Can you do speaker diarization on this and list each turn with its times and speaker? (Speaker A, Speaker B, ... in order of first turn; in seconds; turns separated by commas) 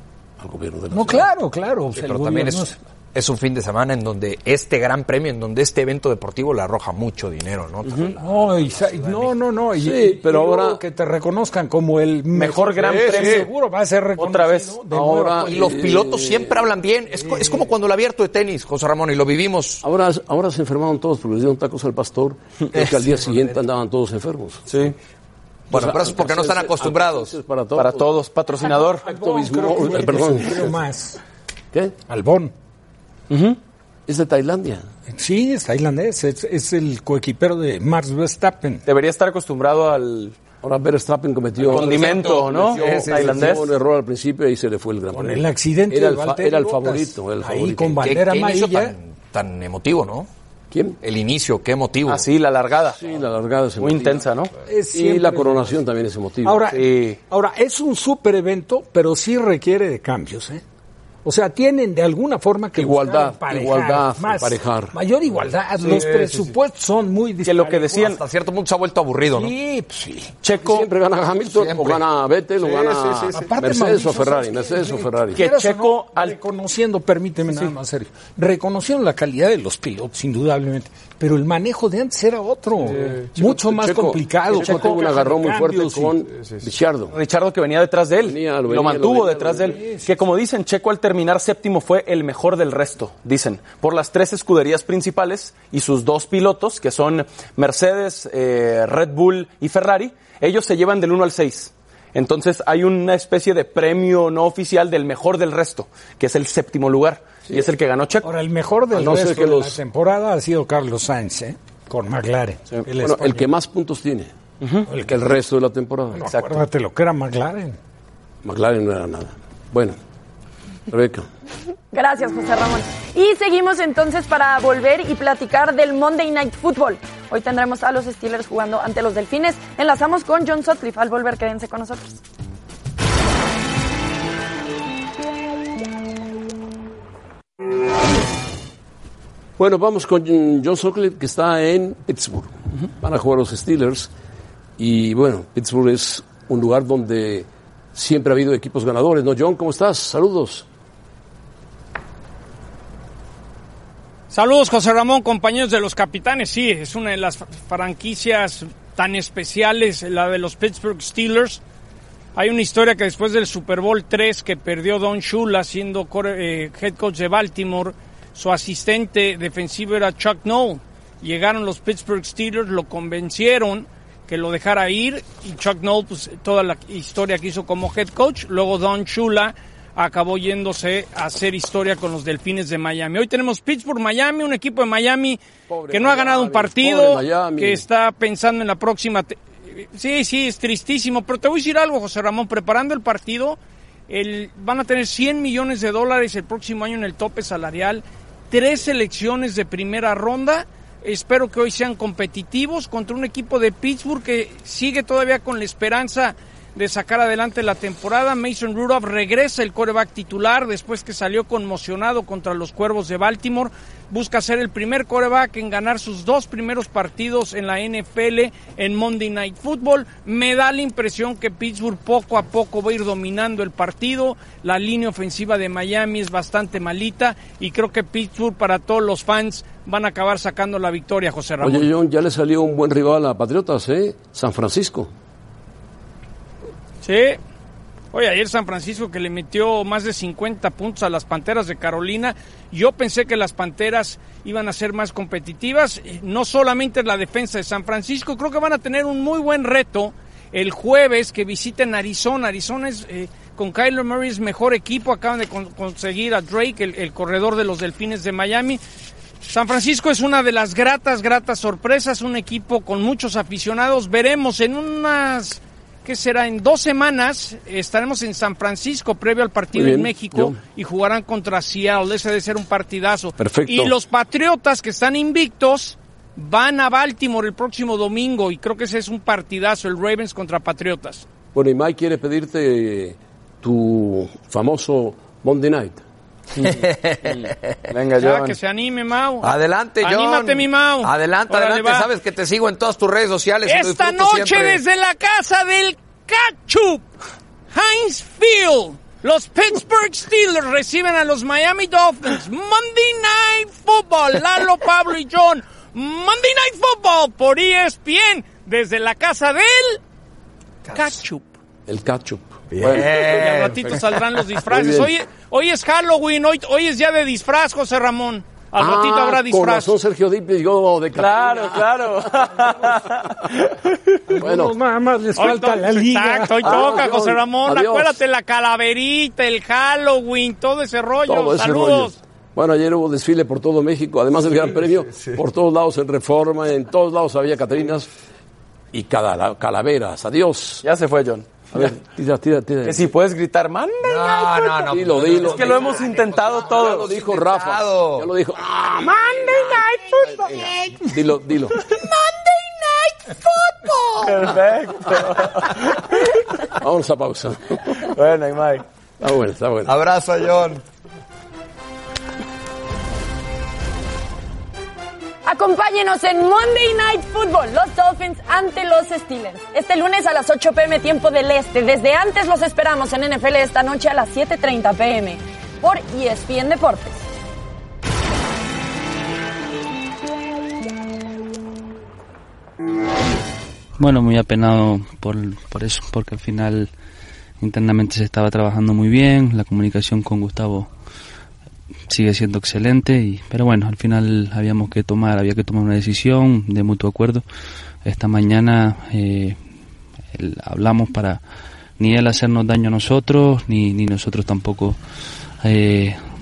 Speaker A: 0.4-1.3, Speaker B: 0.9-2.8, Speaker C: 1.9-9.3, Speaker B: 8.2-15.8, Speaker A: 9.8-10.8, Speaker D: 12.3-13.5, Speaker D: 14.2-14.8, Speaker A: 14.9-16.6, Speaker C: 15.4-19.8, Speaker B: 17.2-17.6, Speaker A: 19.8-24.9, Speaker D: 24.7-24.9, Speaker C: 25.7-27.3, Speaker A: 25.7-28.1, Speaker D: 27.8-29.1, Speaker B: 28.6-31.2, Speaker A: 29.1-30.8, Speaker B: 32.1-32.5, Speaker D: 33.3-33.6, Speaker A: 34.1-34.9, Speaker B: 35.1-38.8, Speaker D: 38.9-40.4, Speaker A: 40.6-48.0, Speaker D: 41.7-43.7, Speaker C: 41.7-43.6, Speaker B: 45.1-48.9, Speaker C: 48.0-50.3, Speaker A: 50.7-51.0, Speaker C: 51.0-52.3, Speaker D: 52.1-53.0, Speaker A: 53.0-54.3, Speaker D: 53.8-54.5, Speaker B: 54.7-55.8, Speaker A: 54.9-56.7, Speaker B: 56.4-60.6, Speaker D: 56.7-57.2, Speaker B: 61.2-68.1, Speaker A: 62.8-65.0, Speaker D: 65.9-66.4, Speaker D: 67.5-68.2, Speaker C: 68.0-69.5, Speaker B: 69.3-70.3, Speaker D: 70.4-70.9, Speaker A: 70.6-75.4, Speaker C: 71.5-72.0, Speaker B: 73.3-86.2, Speaker D: 75.3-76.4, Speaker A: 83.3-87.2, Speaker D: 84.6-85.1, Speaker D: 87.1-108.3, Speaker A: 88.2-89.8, Speaker B: 89.7-90.1, Speaker B: 108.2-113.5, Speaker A: 108.9-109.8, Speaker A: 113.0-114.3, Speaker D: 114.6-114.9, Speaker A: 114.9-116.3, Speaker B: 116.1-117.8, Speaker D: 116.3-116.6, Speaker A: 118.4-120.0, Speaker A: 120.9-121.3, Speaker E: 121.9-132.2, Speaker A: 139.6-144.1, Speaker A: 144.8-150.7, Speaker F: 154.3-161.6, Speaker F: 162.3-193.6, Speaker A: 185.7-187.8, Speaker F: 194.1-231.9, Speaker A: 231.6-235.1, Speaker F: 237.0-237.4, Speaker F: 238.1-258.8, Speaker F: 259.4-281.2, Speaker A: 269.7-270.6, Speaker A: 273.4-274.0, Speaker A: 281.5-286.0, Speaker D: 286.6-288.6, Speaker C: 286.6-287.9, Speaker F: 288.2-289.5, Speaker C: 289.4-294.8, Speaker F: 290.0-292.1, Speaker F: 293.7-297.1, Speaker F: 297.7-310.0, Speaker F: 310.9-311.5, Speaker A: 311.9-313.2, Speaker C: 312.8-314.0, Speaker F: 313.0-319.9, Speaker A: 314.6-315.1, Speaker A: 318.8-323.3, Speaker D: 321.2-324.2, Speaker B: 324.3-326.8, Speaker A: 324.4-324.8, Speaker F: 325.4-332.1, Speaker A: 326.6-328.2, Speaker A: 331.3-338.1, Speaker A: 338.9-340.8, Speaker D: 340.8-341.9, Speaker A: 341.7-343.1, Speaker D: 342.9-344.8, Speaker C: 344.0-348.3, Speaker A: 344.9-351.8, Speaker D: 345.4-347.1, Speaker D: 354.2-356.4, Speaker A: 356.7-358.0, Speaker D: 358.0-358.8, Speaker A: 359.2-360.0, Speaker C: 359.9-360.8, Speaker E: 365.5-377.2, Speaker G: 384.0-386.9, Speaker G: 387.6-390.9, Speaker G: 392.1-397.4, Speaker G: 398.1-399.6, Speaker G: 400.3-401.4, Speaker G: 402.0-405.0, Speaker G: 405.6-406.2